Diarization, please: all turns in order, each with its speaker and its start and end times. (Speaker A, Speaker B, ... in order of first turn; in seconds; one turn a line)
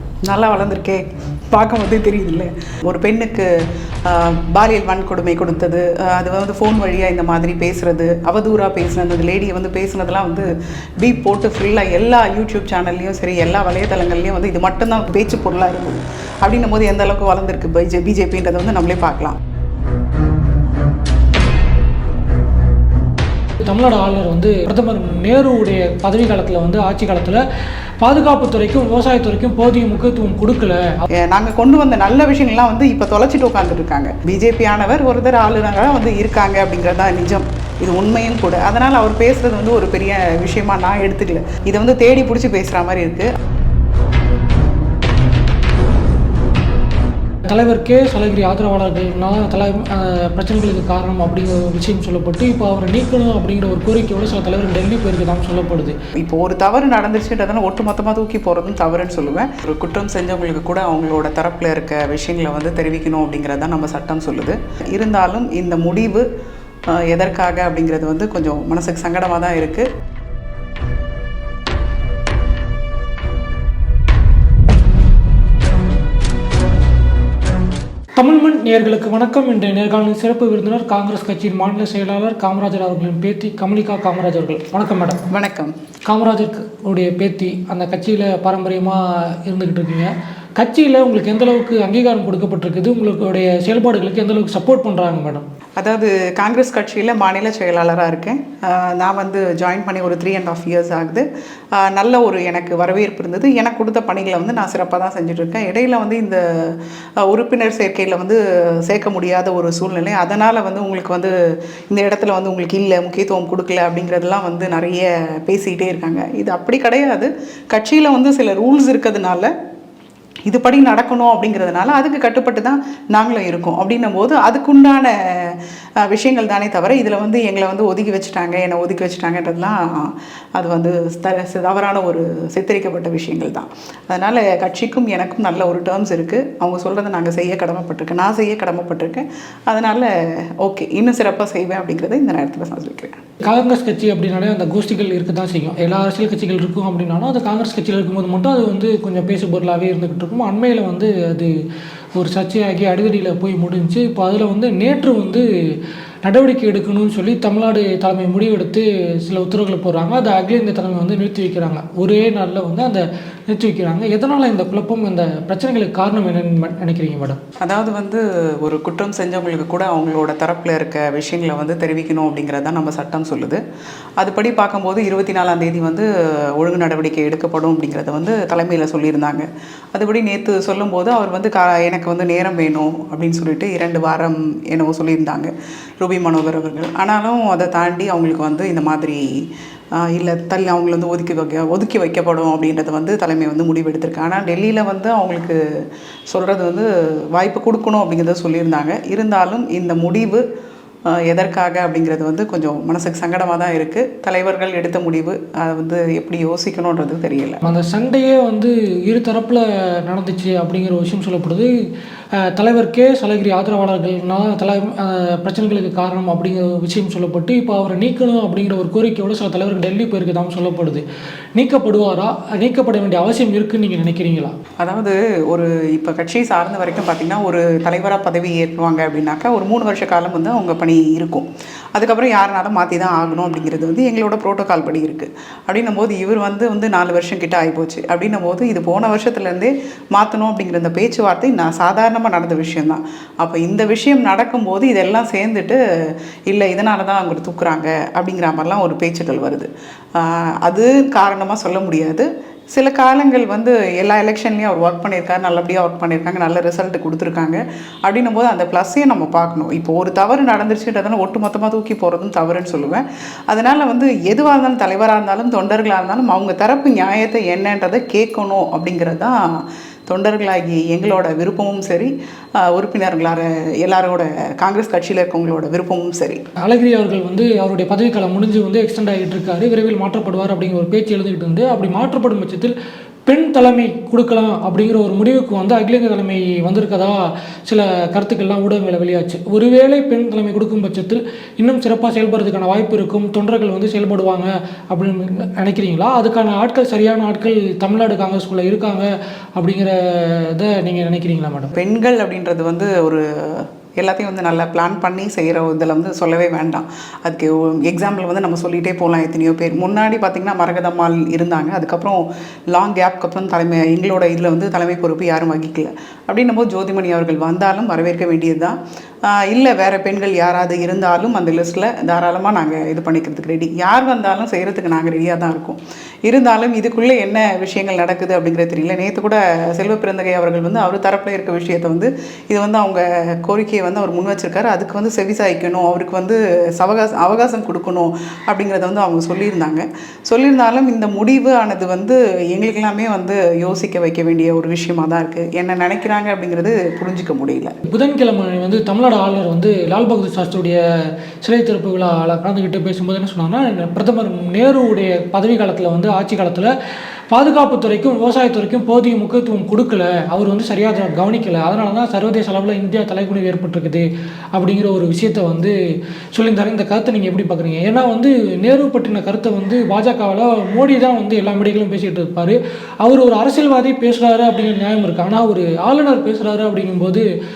Speaker A: 0.3-3.5
Speaker A: 4.1-10.5
Speaker A: 11.0-19.4
Speaker B: 23.7-27.4
Speaker B: 28.0-31.1
Speaker A: 31.1-43.3
Speaker B: 47.5-56.0
Speaker A: 56.2-66.2
Speaker A: 66.9-69.9
Speaker B: 78.2-85.2
Speaker A: 85.3-85.7
Speaker B: 86.1-95.5
Speaker A: 95.8-101.2
Speaker A: 101.8-111.3
Speaker A: 111.9-119.5
Speaker A: 120.5-140.1
Speaker A: 140.6-143.2
Speaker B: 143.4-151.5
Speaker B: 152.2-155.5
Speaker B: 156.2-167.4
Speaker A: 167.6-173.6
Speaker A: 174.2-189.2
Speaker A: 190.0-195.6
Speaker A: 196.3-200.4
Speaker A: 201.1-207.6
Speaker B: 207.6-211.7
Speaker B: 212.5-221.0
Speaker B: 221.6-224.6
Speaker A: 224.8-276.4
Speaker B: 276.6-282.7
Speaker B: 283.3-287.2
Speaker B: 287.7-301.7
Speaker A: 301.8-318.8
Speaker A: 319.3-347.7
Speaker B: 347.9-350.8
Speaker B: 351.4-356.7
Speaker B: 357.3-365.7
Speaker B: 366.3-377.2